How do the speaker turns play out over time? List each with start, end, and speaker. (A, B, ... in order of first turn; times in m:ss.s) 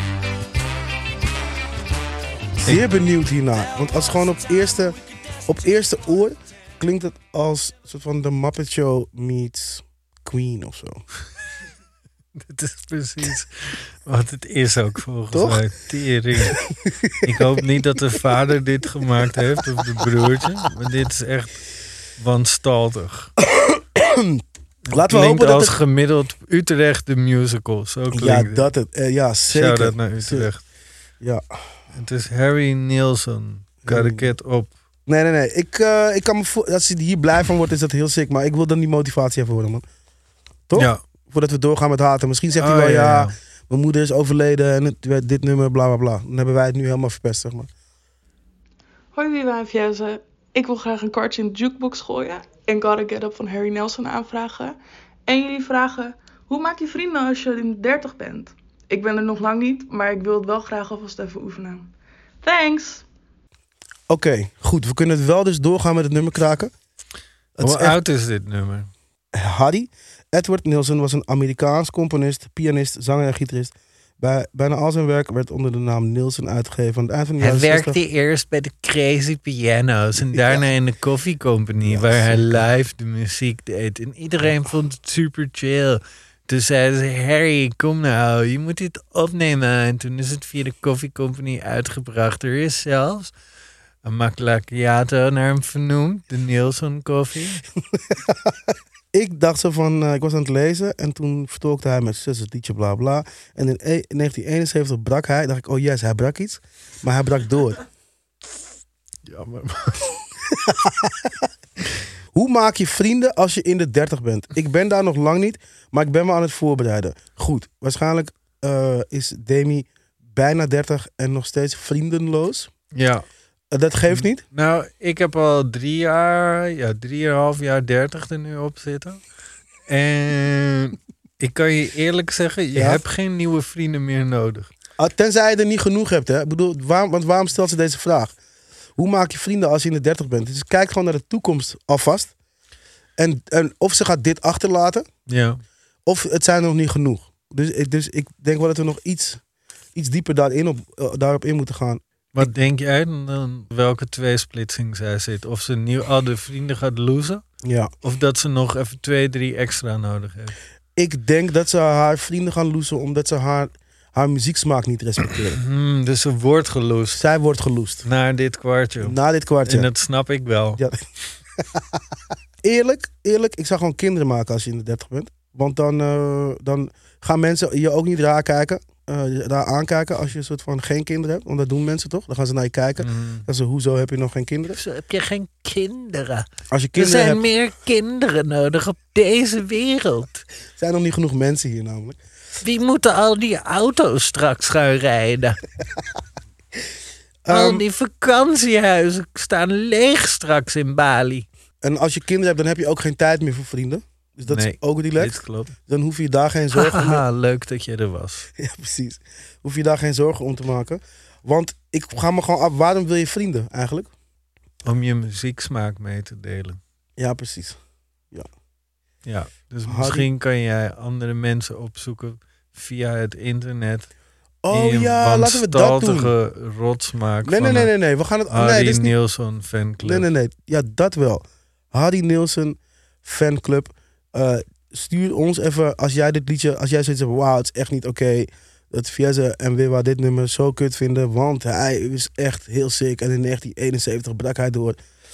0:02.6-0:05.0 A
0:05.5-0:11.0 A
0:12.4-0:16.6 B
0:15.3-0:15.6 A
0:16.4-0:17.5 A
0:17.2-0:21.6 B
0:22.2-0:23.3 B
0:23.4-0:25.8 A
0:24.9-0:28.7 B
0:28.1-0:30.5 A
0:29.5-0:30.6 B
0:31.9-0:34.7 B
0:33.8-0:34.3 A
0:35.1-0:39.8 A
0:40.7-0:47.7 A
0:40.7-0:41.0 B
0:42.6-0:43.3 B
0:49.1-1:01.9 C
1:02.4-1:03.0 C
1:04.1-1:06.7 A
1:07.6-1:08.0 A
1:07.6-1:08.9 B
1:09.3-1:18.0 A
1:17.4-1:33.3 B
1:20.3-1:20.7 A
1:21.8-1:22.6 A
1:34.0-1:37.6 B
1:38.3-1:38.5 A
1:39.1-1:47.8 A
1:49.2-1:50.2 B
1:50.6-1:51.5 A
1:52.3-2:02.7 A
2:02.9-2:03.2 B
2:03.7-2:04.4 A
2:04.1-2:09.2 B
2:09.9-2:14.7 B
2:12.7-2:13.0 A
2:15.0-2:18.3 A
2:19.0-2:22.3 A
2:23.2-2:25.0 A
2:25.3-2:25.6 B
2:26.0-2:29.4 A
2:29.9-2:32.5 A
2:32.3-2:37.4 B
2:37.6-2:37.9 A
2:38.0-2:40.6 B
2:41.0-2:45.6 A
2:45.6-2:47.2 B
2:47.1-2:48.0 A
2:48.0-2:50.8 B
2:49.0-2:49.9 A
2:52.6-3:04.8 A
3:03.0-3:03.5 B
3:04.7-3:10.4 B
3:06.7-3:07.5 A
3:10.8-3:12.2 A
3:12.6-3:15.6 B
3:17.4-3:17.8 A
3:17.5-3:21.4 B
3:21.8-3:27.2 A
3:24.5-3:25.7 B
3:26.7-3:28.5 B
3:28.6-3:34.1 A
3:34.8-3:36.8 B
3:37.2-3:37.8 A
3:39.2-3:44.1 B
3:39.8-3:40.3 A
3:44.6-3:46.3 A
3:44.7-3:47.9 B
3:47.4-3:49.1 A
3:48.5-3:50.3 B
3:50.0-4:05.0 A